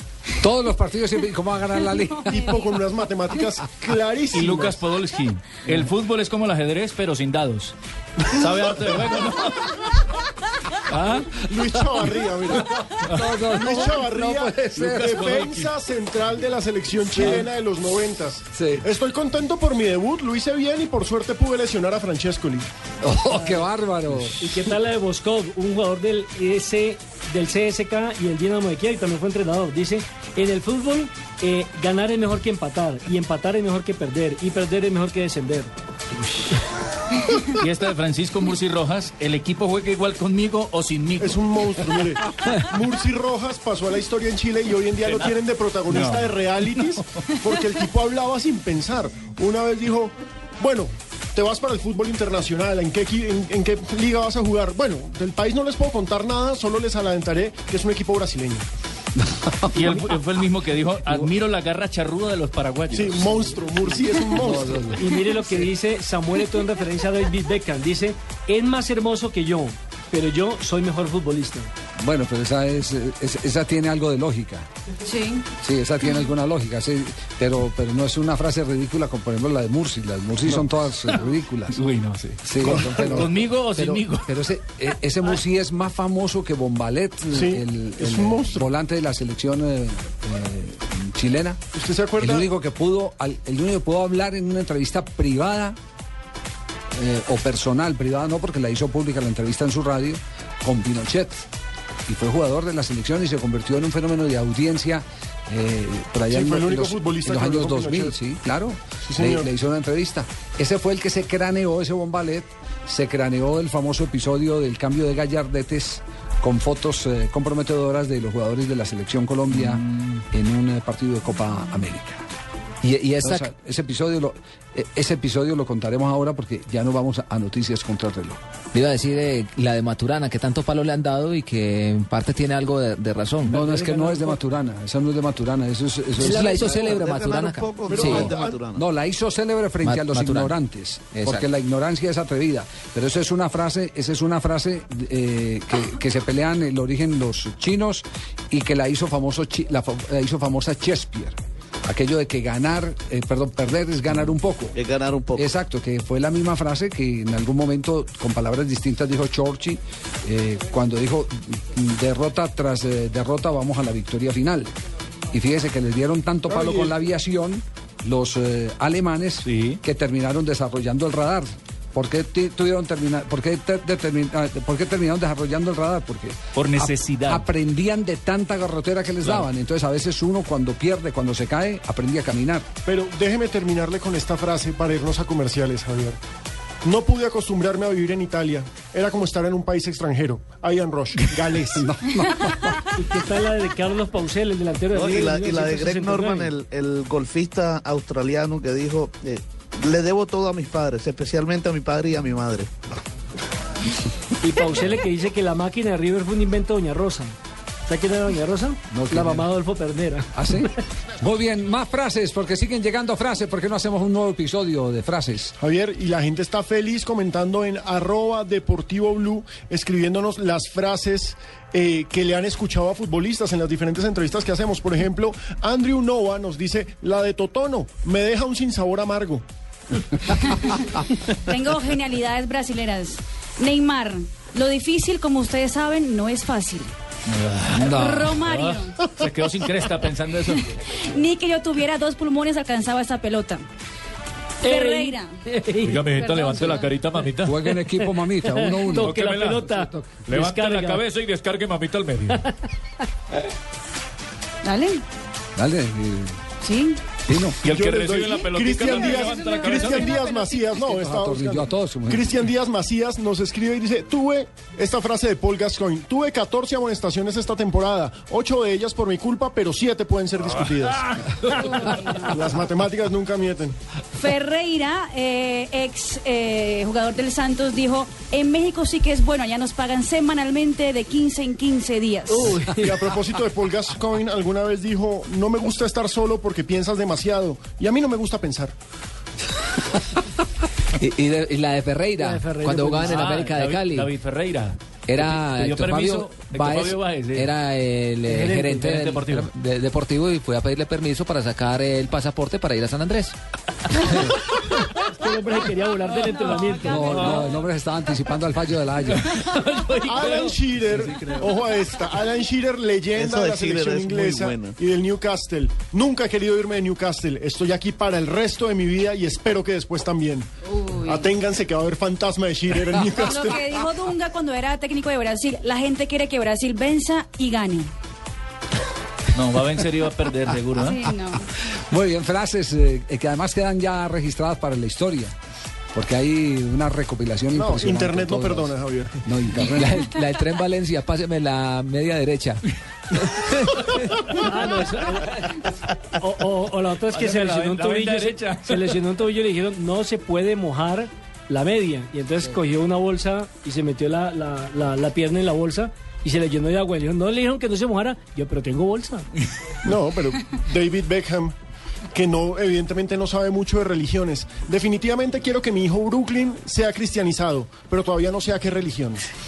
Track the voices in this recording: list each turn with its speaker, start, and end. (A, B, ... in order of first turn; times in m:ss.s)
0:00.4-0:02.4 A
0:01.9-0:02.9 B
0:02.3-0:04.8 C
0:04.3-0:09.7 D
0:10.8-0:11.3 D
0:11.3-0:12.8 C
0:12.5-0:15.3 A
0:13.0-0:13.3 D
0:13.5-0:22.7 C
0:14.8-0:15.7 D
0:17.1-0:17.5 A
0:18.5-0:18.8 A
0:23.0-0:24.5 A
0:23.3-0:23.6 E
0:24.2-0:35.7 E
0:37.5-0:42.0 D
0:41.2-0:58.6 C
0:45.9-0:46.9 D
0:59.2-1:00.0 A
0:59.7-1:03.5 D
1:02.9-1:05.0 C
1:04.4-1:05.0 A
1:05.0-1:11.7 E
1:12.0-1:14.6 A
1:15.0-1:15.4 B
1:15.6-1:21.8 A
1:21.7-1:24.3 D
1:22.4-1:31.6 A
1:22.6-1:23.3 C
1:27.3-1:28.7 C
1:31.7-1:32.4 C
1:32.2-1:35.8 A
1:37.0-1:41.4 A
1:42.1-2:02.2 A
1:46.3-1:48.1 C
1:49.0-1:49.5 C
2:02.8-2:03.5 F
2:03.2-2:08.4 A
2:08.7-2:13.6 F
2:13.5-2:16.8 A
2:13.8-2:14.4 E
2:16.2-2:18.3 F
2:16.4-2:18.8 G
2:17.8-2:18.6 C
2:18.0-2:34.8 A
2:19.8-2:20.6 F
2:21.1-2:21.5 F
2:34.7-2:35.5 G
2:35.3-2:44.7 A
2:45.3-3:02.7 A
2:46.5-2:47.0 C
2:49.4-2:49.8 D
2:56.5-2:57.5 D
3:02.8-3:06.2 C
3:06.8-3:11.9 C
3:11.7-3:12.8 A
3:13.0-3:16.5 E
3:14.9-3:22.7 G
3:24.4-3:27.3 E
3:27.8-3:30.3 E
3:28.9-3:29.5 A
3:30.3-3:35.5 A
3:35.6-3:49.4 C
3:50.3-3:56.9 B
3:57.3-4:00.8 D
3:57.8-3:58.3 A
3:57.9-3:59.1 B
4:00.8-4:03.6 B
4:04.6-4:06.2 E
4:04.6-4:05.4 B
4:05.8-4:07.5 D
4:06.1-4:07.0 B
4:07.1-4:11.0 E
4:07.4-4:10.1 A
4:08.9-4:09.6 D
4:10.2-4:12.4 D
4:14.6-4:15.0 B
4:15.6-4:16.4 A
4:16.6-4:17.1 B
4:17.3-4:17.6 A
4:17.3-4:20.2 D
4:17.6-4:31.2 C
4:18.8-4:20.7 B
4:20.7-4:22.3 A
4:31.3-4:32.3 D
4:31.5-4:32.5 B
4:32.3-4:33.8 C
4:34.1-4:42.5 B
4:42.3-4:43.0 E
4:42.7-4:48.7 C
4:51.0-4:54.1 F
4:52.2-4:53.4 E
4:53.0-4:57.5 D
4:55.1-5:03.3 F
4:58.3-4:59.5 D
4:58.4-4:58.8 E
5:03.9-5:04.3 F
5:04.7-5:07.5 E
5:06.3-5:07.5 D
5:06.8-5:09.4 A
5:09.1-5:11.8 D
5:10.0-5:20.5 C
5:13.1-5:14.8 G
5:20.6-5:21.3 B
5:21.0-5:23.6 C
5:23.2-5:27.9 B
5:29.3-5:31.0 D
5:30.8-5:31.5 B
5:31.9-5:35.3 A
5:35.9-5:38.7 A
5:37.5-5:39.2 C
5:39.2-5:40.1 A
5:39.5-5:42.6 F
5:43.3-5:44.0 F
5:44.4-5:59.3 E
5:47.1-5:49.0 D
5:59.8-6:01.5 C
6:02.1-6:09.2 C